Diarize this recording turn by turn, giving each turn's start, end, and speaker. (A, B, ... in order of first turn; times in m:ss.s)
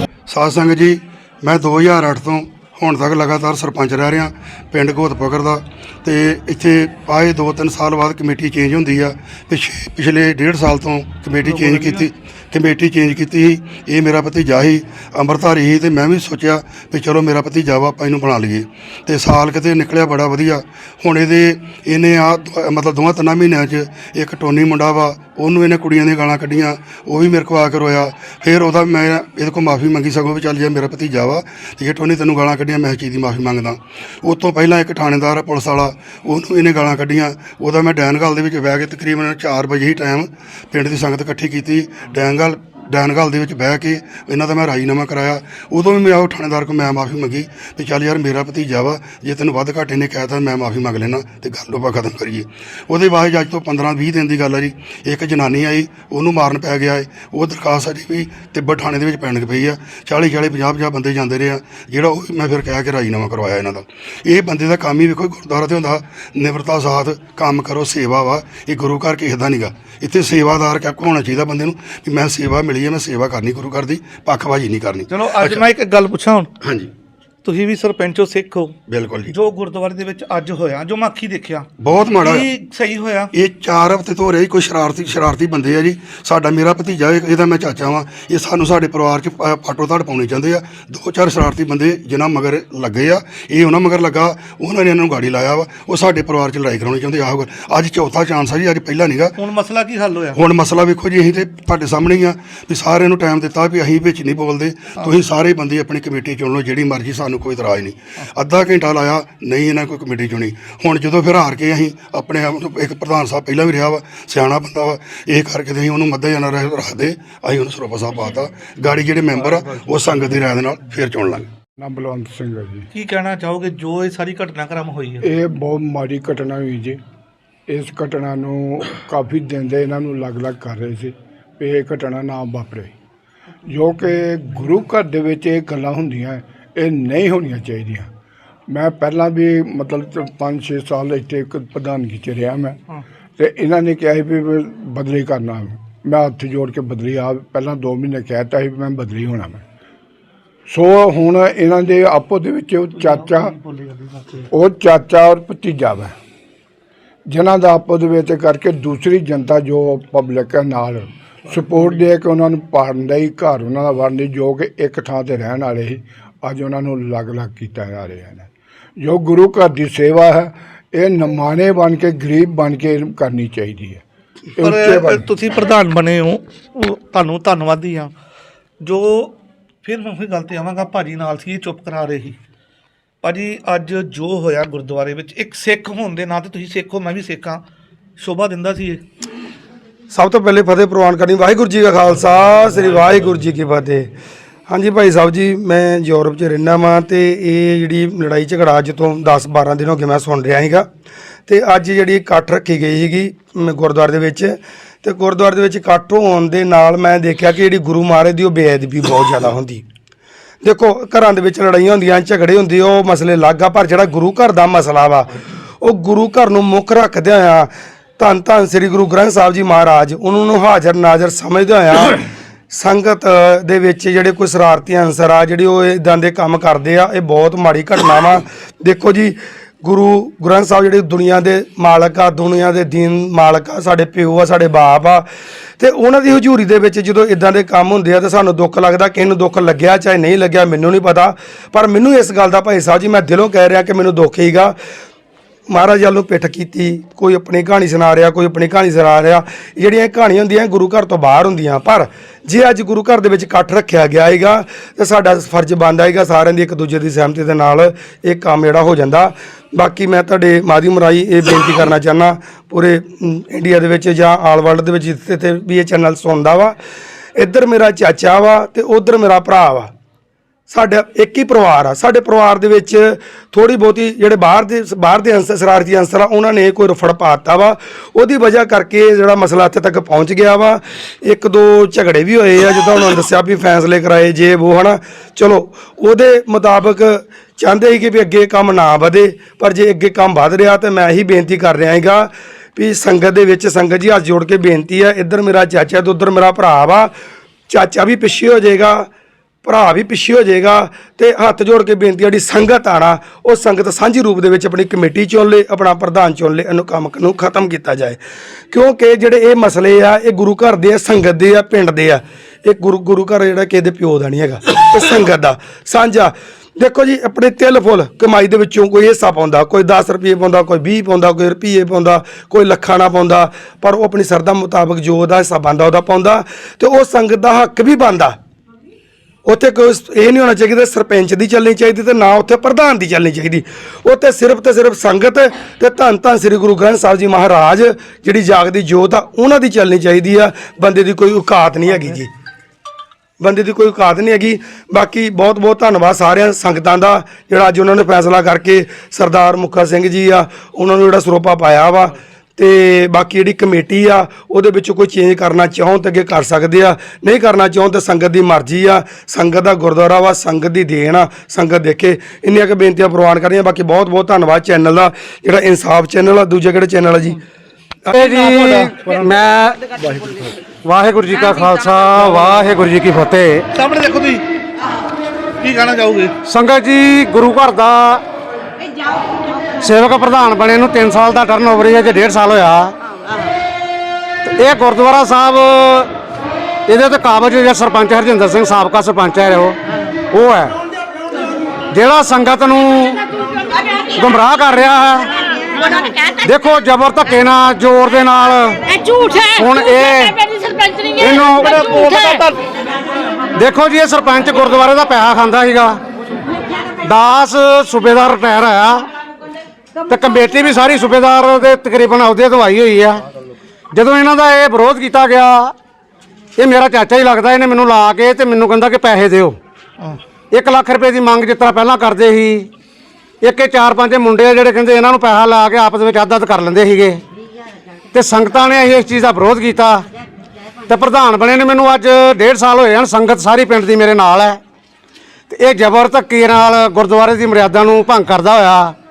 0:00.3-1:15.6 A
0:11.5-0:12.0 B
1:15.1-1:16.5 B
1:17.4-1:18.7 B
1:18.9-1:19.3 A
1:19.3-1:23.3 B
1:21.8-1:22.4 A
1:23.3-1:39.4 A
1:39.4-1:40.4 B
1:40.4-2:01.5 A
1:45.0-1:45.2 B
2:01.8-2:02.9 C
2:02.9-2:05.2 B
2:05.2-2:07.0 C
2:07.7-2:12.9 C
2:13.7-2:18.1 C
2:18.7-2:22.8 C
2:23.4-2:29.6 C
2:30.7-2:33.6 C
2:32.9-2:34.5 B
2:34.5-2:36.1 C
2:37.3-2:48.5 C
2:49.0-2:54.0 C
2:54.6-2:55.3 C
2:54.6-2:58.1 B
2:58.8-3:02.4 B
3:03.2-3:07.6 B
3:08.2-3:09.0 B
3:10.1-3:14.1 D
3:14.7-3:20.9 D
3:21.5-3:29.8 D
3:30.6-3:35.3 D
3:35.8-3:42.2 D
3:42.7-3:55.3 D
3:55.8-4:04.8 D
4:05.7-4:26.8 D
4:27.4-4:29.9 D
4:30.7-4:57.1 D
4:57.7-4:59.1 D
4:59.6-5:08.2 D
5:08.7-5:28.4 D
5:29.5-5:42.3 D
5:43.4-6:07.4 D
6:08.1-6:09.9 E
6:10.8-6:13.6 E
6:13.8-6:14.4 B
6:15.6-6:16.3 B
6:16.4-6:18.2 E
6:19.8-6:23.0 E
6:24.4-6:26.1 E
6:26.9-6:29.8 E
6:30.3-6:30.7 E
6:31.9-6:33.2 E
6:34.2-6:35.3 E
6:36.4-6:38.8 E
6:38.9-6:42.4 F
6:39.5-6:40.4 E
6:41.2-6:41.8 E
6:41.2-6:42.6 B
6:43.6-6:46.0 E
6:47.0-6:49.0 E
6:50.1-6:53.2 E
6:53.9-6:55.7 E
6:56.6-6:59.6 E
7:00.5-7:02.7 E
7:03.4-7:07.2 E
7:08.1-7:10.1 E
7:10.9-7:14.6 E
7:15.5-7:19.0 E